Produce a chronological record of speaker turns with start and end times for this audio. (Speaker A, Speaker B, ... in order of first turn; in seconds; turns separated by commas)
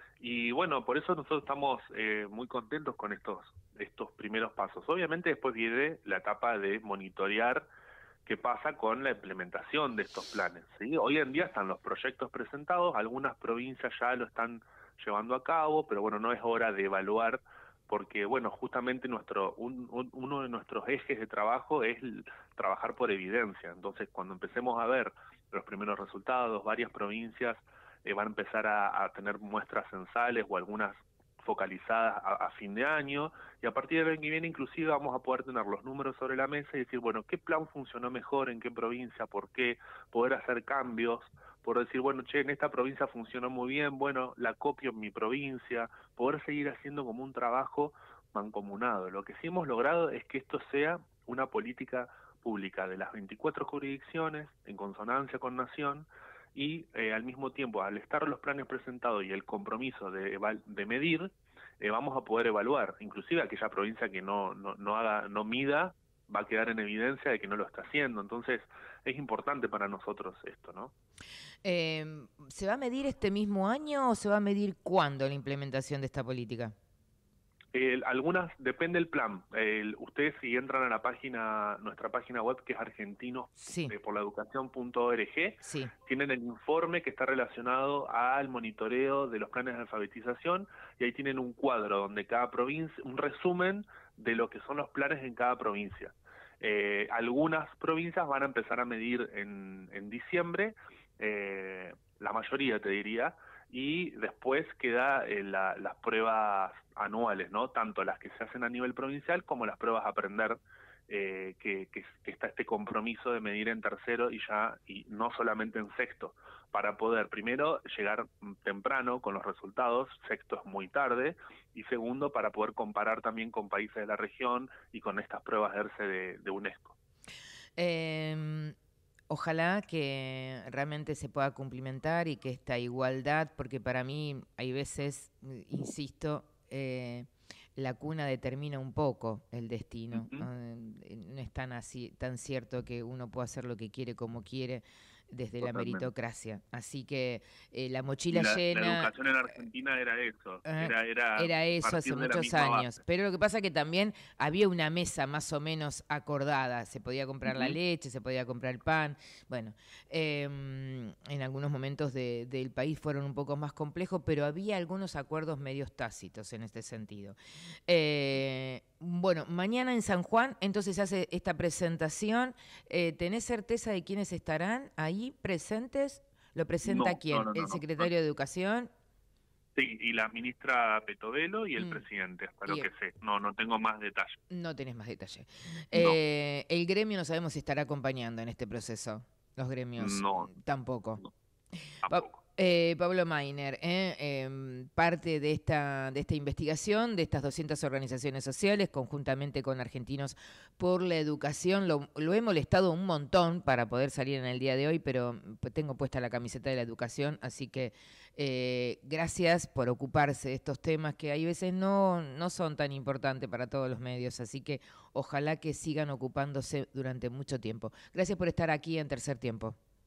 Speaker A: 0.2-7.7, Speaker A: 8.2-70.9, Speaker B: 71.6-76.7, Speaker A: 77.7-127.0, Speaker B: 83.6-84.0, Speaker B: 85.6-85.9, Speaker B: 127.8-128.8, Speaker B: 129.3-149.1, Speaker A: 140.1-140.5, Speaker A: 145.6-146.1, Speaker A: 148.3-153.0, Speaker B: 150.6-167.4, Speaker A: 157.4-157.8, Speaker B: 167.9-178.9, Speaker A: 176.8-178.1, Speaker A: 179.8-184.4, Speaker B: 181.8-182.0, Speaker B: 184.5-191.2, Speaker A: 185.9-186.2, Speaker A: 190.0-190.5, Speaker A: 192.0-192.4, Speaker B: 192.1-219.8